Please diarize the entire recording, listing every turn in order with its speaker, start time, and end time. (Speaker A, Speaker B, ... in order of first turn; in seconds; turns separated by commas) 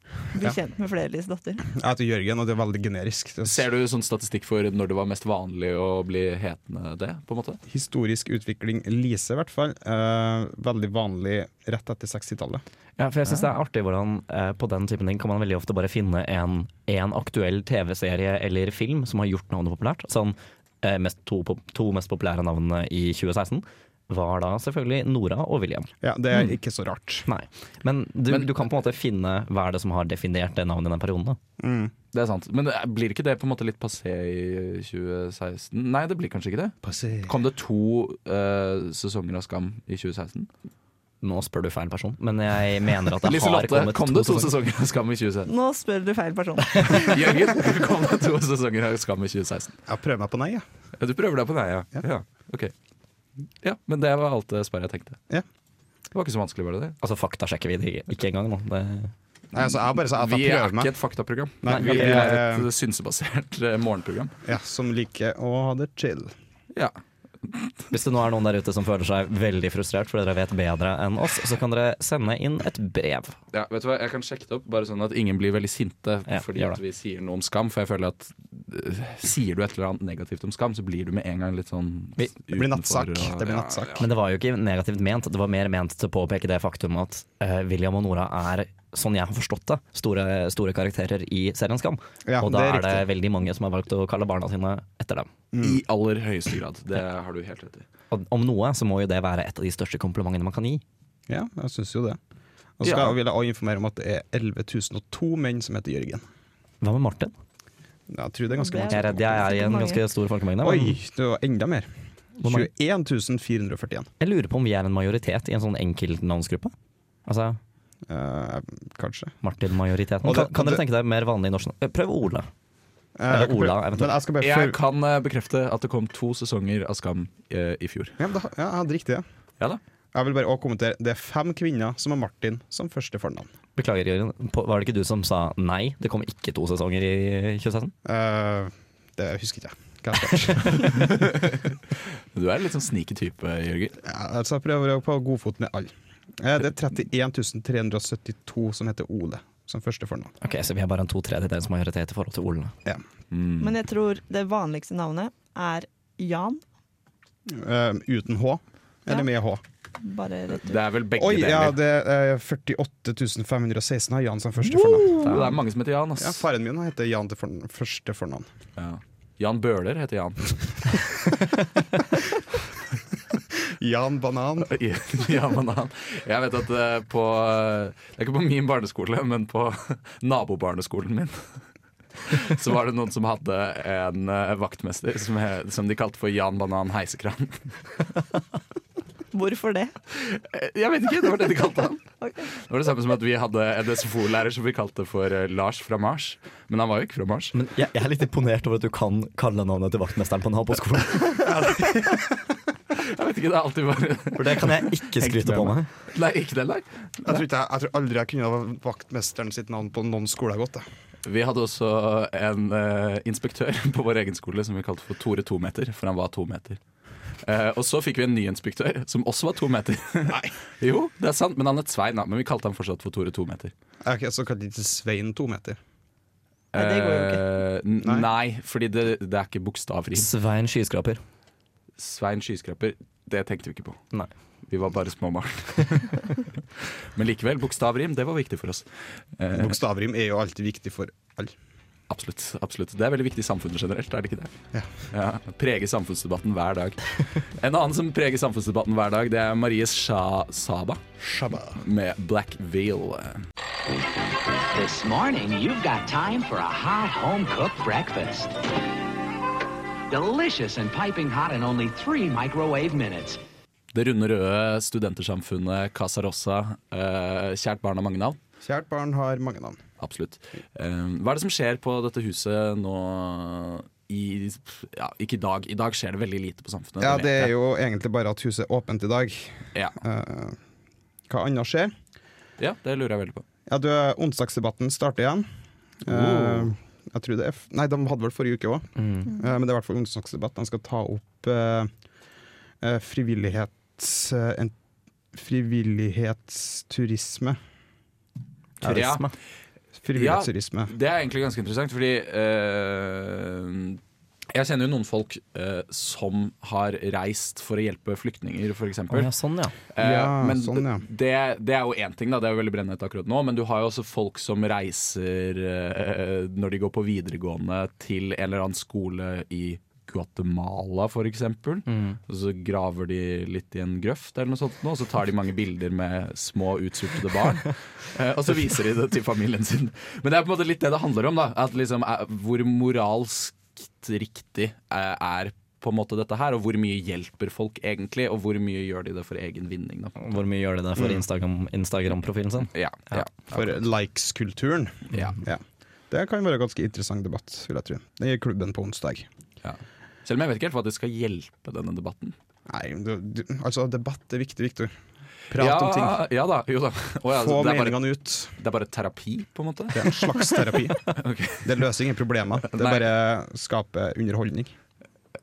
Speaker A: 0.3-1.7, Speaker B: 1.7-3.6, Speaker C: 3.5-7.6, Speaker B: 7.7-12.6, Speaker D: 13.0-25.9, Speaker B: 26.0-27.3, Speaker D: 27.3-31.4, Speaker B: 31.6-31.9, Speaker C: 32.1-40.5, Speaker B: 36.8-37.4, Speaker D: 41.2-44.5, Speaker C: 43.2-45.5, Speaker A: 45.5-47.6, Speaker C: 46.8-49.8, Speaker B: 49.9-50.6, Speaker C: 51.0-52.7, Speaker C: 53.6-55.2, Speaker C: 56.1-57.0, Speaker D: 57.0-59.1, Speaker B: 59.5-60.9, Speaker C: 59.6-64.4, Speaker B: 61.6-62.7, Speaker D: 61.7-62.4, Speaker B: 64.5-66.3, Speaker C: 66.7-67.7, Speaker D: 67.9-73.4, Speaker C: 73.5-84.1, Speaker D: 76.3-76.8, Speaker B: 82.5-84.0, Speaker D: 84.0-95.3, Speaker B: 92.3-93.1, Speaker B: 95.5-95.8, Speaker C: 95.6-97.8, Speaker D: 98.1-100.8, Speaker B: 101.3-102.2, Speaker B: 102.8-106.2, Speaker C: 102.8-103.2, Speaker D: 106.8-107.3, Speaker B: 108.1-109.6, Speaker A: 108.5-110.0, Speaker D: 108.9-111.0, Speaker B: 110.6-114.1, Speaker D: 112.4-112.7, Speaker D: 114.2-116.7, Speaker D: 117.3-117.6, Speaker B: 118.1-119.4, Speaker D: 119.4-122.5, Speaker B: 120.2-120.8, Speaker B: 123.2-124.8, Speaker D: 123.3-124.2, Speaker C: 124.4-128.2, Speaker B: 128.2-129.3, Speaker B: 130.1-133.5, Speaker D: 133.8-137.9, Speaker B: 138.1-141.1, Speaker C: 140.7-141.8, Speaker C: 142.3-144.0, Speaker B: 144.0-150.3, Speaker D: 150.4-152.7, Speaker C: 153.3-153.8, Speaker A: 153.6-156.6, Speaker B: 157.5-159.6, Speaker A: 160.0-160.8, Speaker C: 160.6-161.8, Speaker B: 161.2-165.5, Speaker C: 165.2-166.4, Speaker B: 166.2-168.5, Speaker C: 168.8-171.0, Speaker B: 173.7-174.7, Speaker C: 174.6-181.6, Speaker C: 182.2-187.8, Speaker A: 189.3-189.9, Speaker C: 190.1-197.5, Speaker A: 192.2-192.5, Speaker D: 197.5-201.5, Speaker B: 201.4-202.4, Speaker C: 202.9-207.4, Speaker D: 204.3-205.9, Speaker B: 207.2-210.8, Speaker C: 211.2-216.8, Speaker C: 217.4-223.7, Speaker B: 224.0-225.8, Speaker C: 226.7-230.3, Speaker A: 226.7-227.4, Speaker B: 228.0-228.3, Speaker D: 230.1-231.2, Speaker C: 232.0-234.0, Speaker C: 234.7-239.8, Speaker B: 239.5-241.6, Speaker C: 242.1-244.6, Speaker C: 245.1-251.0, Speaker B: 251.2-251.8, Speaker C: 251.8-253.4, Speaker E: 254.7-258.6, Speaker E: 260.1-263.4, Speaker C: 263.9-268.4, Speaker B: 268.6-269.8, Speaker C: 270.0-277.5, Speaker B: 277.0-280.6, Speaker B: 281.3-281.9, Speaker C: 282.6-283.4, Speaker B: 283.7-285.5, Speaker B: 286.0-291.9, Speaker C: 286.1-286.7, Speaker D: 289.0-289.3, Speaker B: 292.8-294.8, Speaker B: 295.3-297.6, Speaker D: 298.8-299.3, Speaker C: 298.8-299.3, Speaker B: 300.0-300.9, Speaker C: 300.1-309.3, Speaker D: 309.1-309.8, Speaker C: 309.9-340.4, Speaker B: 310.0-311.0, Speaker D: 321.9-322.2, Speaker D: 340.2-343.2, Speaker C: 342.7-343.8, Speaker B: 343.5-349.3, Speaker C: 345.1-345.4, Speaker C: 349.6-352.4, Speaker B: 352.7-354.9, Speaker B: 355.5-356.2, Speaker C: 355.5-360.4, Speaker B: 357.3-358.5, Speaker B: 359.9-364.7, Speaker C: 361.1-361.8, Speaker C: 362.6-363.1